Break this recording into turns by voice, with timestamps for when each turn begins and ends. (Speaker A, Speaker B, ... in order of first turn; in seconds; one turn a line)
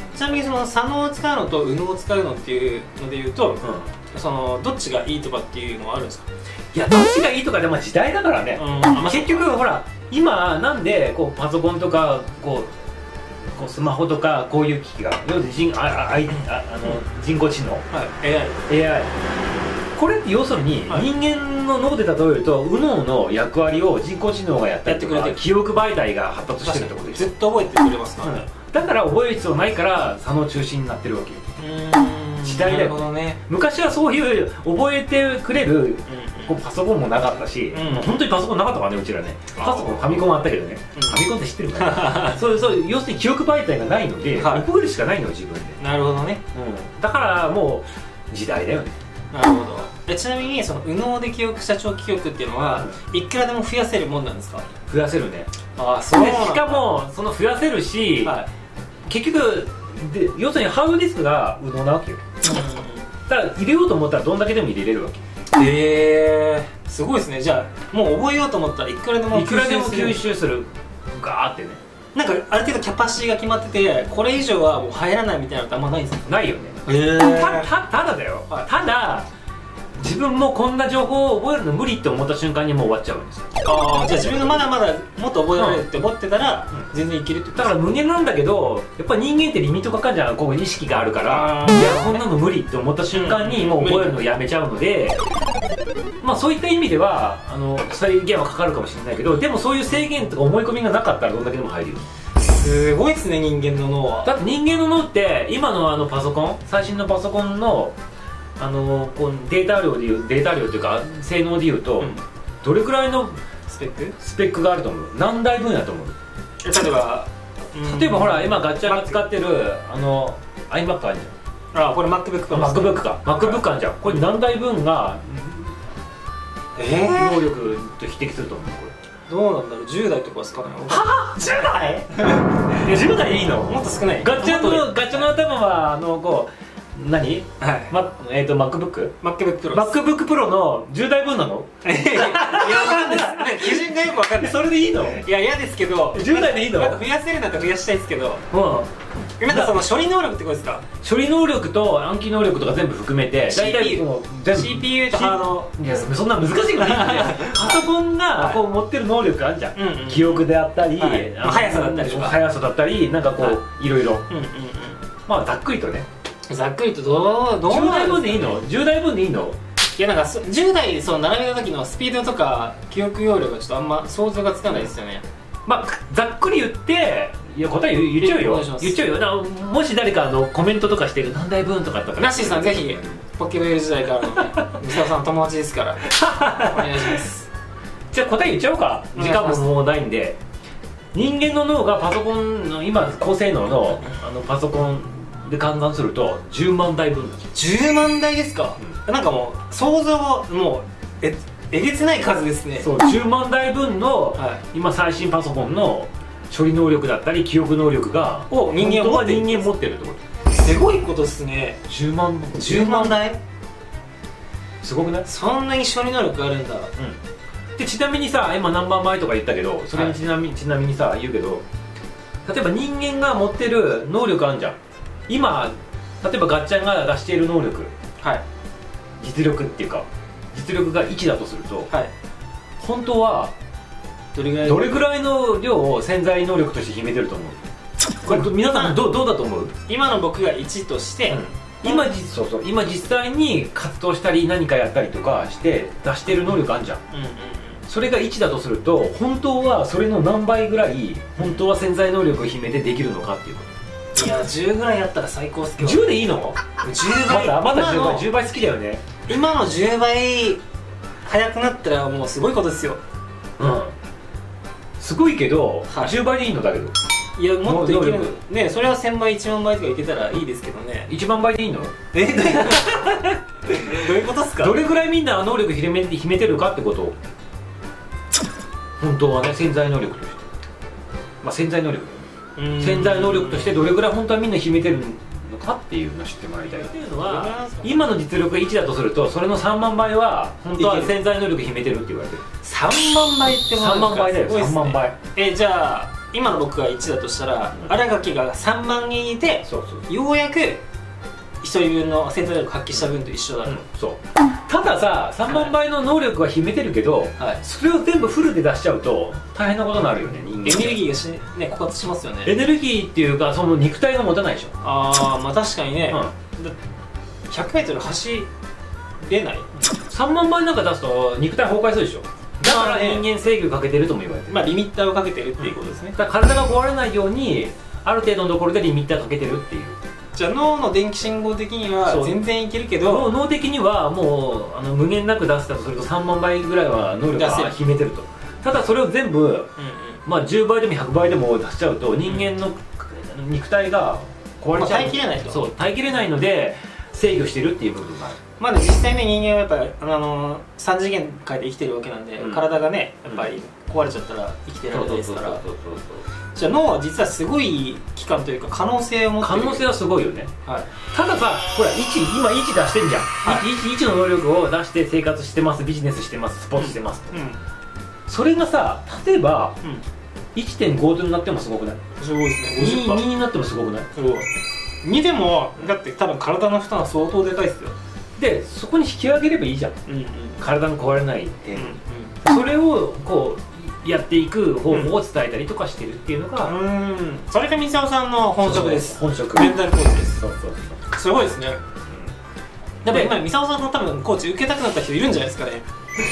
Speaker A: 0.1-6.2
Speaker B: 3.6-3.9
Speaker B: 6.7-12.7
Speaker A: 8.6-9.5
Speaker B: 13.5-17.8
Speaker A: 17.9-18.6
Speaker B: 18.7-19.1
Speaker B: 19.9-27.3
Speaker A: 24.8-25.4
Speaker A: 26.6-28.4
Speaker B: 28.2-31.4
Speaker A: 31.6-33.4
Speaker B: 32.4-45.8
Speaker A: 36.1-36.6
Speaker A: 37.7-38.2
Speaker A: 39.5-40.3
Speaker A: 41.0-41.2
Speaker A: 41.8-42.4
Speaker A: 44.4-44.6
Speaker A: 45.8-46.4
Speaker B: 46.5-48.9
Speaker A: 49.3-54.7
Speaker B: 54.9-55.5
Speaker A: 55.8-56.9
Speaker B: 56.1-58.4
Speaker A: 58.2-58.5
Speaker B: 59.1-62.2
Speaker A: 62.4-63.1
Speaker B: 63.3-65.2
Speaker A: 65.5-70.3
Speaker B: 69.3-71.8
Speaker A: 72.1-76.2
Speaker B: 76.2-79.3
Speaker A: 76.8-77.7
Speaker B: 80.0-83.5
Speaker A: 83.6-87.8
Speaker B: 85.5-85.8
Speaker B: 87.5-95.2
Speaker A: 91.2-92.2
Speaker A: 93.1-94.2
Speaker B: 96.2-102.0
Speaker A: 102.3-104.3
Speaker B: 104.2-107.9
Speaker B: 108.6-113.4
Speaker A: 113.7-114.2
Speaker B: 114.2-116.1
Speaker A: 116.6-119.2
Speaker B: 117.8-121.3
Speaker A: 121.7-123.6
Speaker B: 122.5-125.8
Speaker A: 126.8-127.5
Speaker B: 127.1-128.9
Speaker A: 129.3-135.3
Speaker B: 130.9-139.1
Speaker A: 137.6-137.9
Speaker A: 139.2-140.0
Speaker B: 139.7-145.2
Speaker A: 141.8-148.4
Speaker B: 146.1-147.0
Speaker B: 148.5-148.9
Speaker A: 149.4-150.8
Speaker B: 149.5-149.8
Speaker B: 151.0-164.2
Speaker A: 153.5-156.1
Speaker A: 156.7-157.8
Speaker A: 158.3-158.6
Speaker A: 159.7-162.4
Speaker A: 164.3-165.1
Speaker B: 165.3-166.1
Speaker A: 166.5-168.6
Speaker B: 167.7-169.6
Speaker A: 170.0-175.2
Speaker B: 175.7-183.2
Speaker A: 178.2-179.0
Speaker A: 182.2-187.5
Speaker B: 186.1-187.2
Speaker B: 188.1-190.4
Speaker A: 189.1-189.7
Speaker B: 191.1-197.5
Speaker A: 197.5-202.9
Speaker B: 202.8-210.2
Speaker A: 204.4-204.6
Speaker A: 208.5-209.7
Speaker A: 210.5-211.8
Speaker B: 211.9-213.2
Speaker A: 212.5-213.4
Speaker B: 214.8-215.2
Speaker A: 215.2-216.9
Speaker B: 217.8-221.6
Speaker B: 222.4-227.9
Speaker B: 229.2-231.9
Speaker B: 232.8-233.5
Speaker A: 234.3-235.1
Speaker B: 234.6-237.6
Speaker B: 238.2-239.7
Speaker A: 238.2-239.0
Speaker A: 239.9-242.1
Speaker B: 241.3-247.0
Speaker A: 247.1-247.8
Speaker B: 247.9-253.7
Speaker A: 251.4-251.7
Speaker A: 254.1-256.1
Speaker B: 255.8-259.0
Speaker A: 256.8-258.2
Speaker A: 259.3-260.6
Speaker A: 261.2-263.0
Speaker B: 263.6-263.9
Speaker B: 265.0-266.9
Speaker A: 265.9-266.1
Speaker A: 267.4-271.1
Speaker B: 267.6-268.4
Speaker B: 271.1-271.9
Speaker A: 272.1-274.8
Speaker B: 272.5-277.1
Speaker B: 279.0-280.5
Speaker B: 281.4-282.2
Speaker A: 282.6-283.8
Speaker B: 282.8-292.4
Speaker A: 286.7-288.0
Speaker A: 290.8-291.1
Speaker A: 292.6-300.8
Speaker B: 293.7-295.2
Speaker B: 299.6-300.1
Speaker A: 301.6-303.8
Speaker B: 303.6-311.0
Speaker A: 305.5-305.7
Speaker A: 310.6-312.5
Speaker B: 312.4-314.7
Speaker A: 314.8-316.8
Speaker A: 317.5-318.5
Speaker A: 319.2-319.7
Speaker B: 319.9-324.7
Speaker A: 322.6-323.2
Speaker A: 324.5-326.1
Speaker B: 325.6-330.0
Speaker A: 330.3-333.3
Speaker B: 332.0-332.4
Speaker B: 333.0-339.7
Speaker A: 337.3-337.8
Speaker A: 339.8-340.2
Speaker B: 340.2-348.4
Speaker A: 344.7-345.6
Speaker A: 348.6-355.6
Speaker B: 352.4-352.7
Speaker B: 354.9-356.3
Speaker A: 356.5-359.9
Speaker B: 359.4-360.5
Speaker A: 360.6-360.9
Speaker B: 361.1-367.4
Speaker A: 366.8-367.6
Speaker B: 368.3-369.8
Speaker B: 370.5-372.0
Speaker A: 372.2-373.2
Speaker B: 372.8-374.1
Speaker A: 374.1-374.5
Speaker A: 375.0-377.9
Speaker B: 378.4-380.0
Speaker A: 380.1-380.6
Speaker B: 380.6-386.7
Speaker A: 381.7-382.3
Speaker A: 386.6-390.4
Speaker B: 388.6-391.0
Speaker A: 391.1-391.8
Speaker A: 393.0-395.8
Speaker B: 393.1-393.4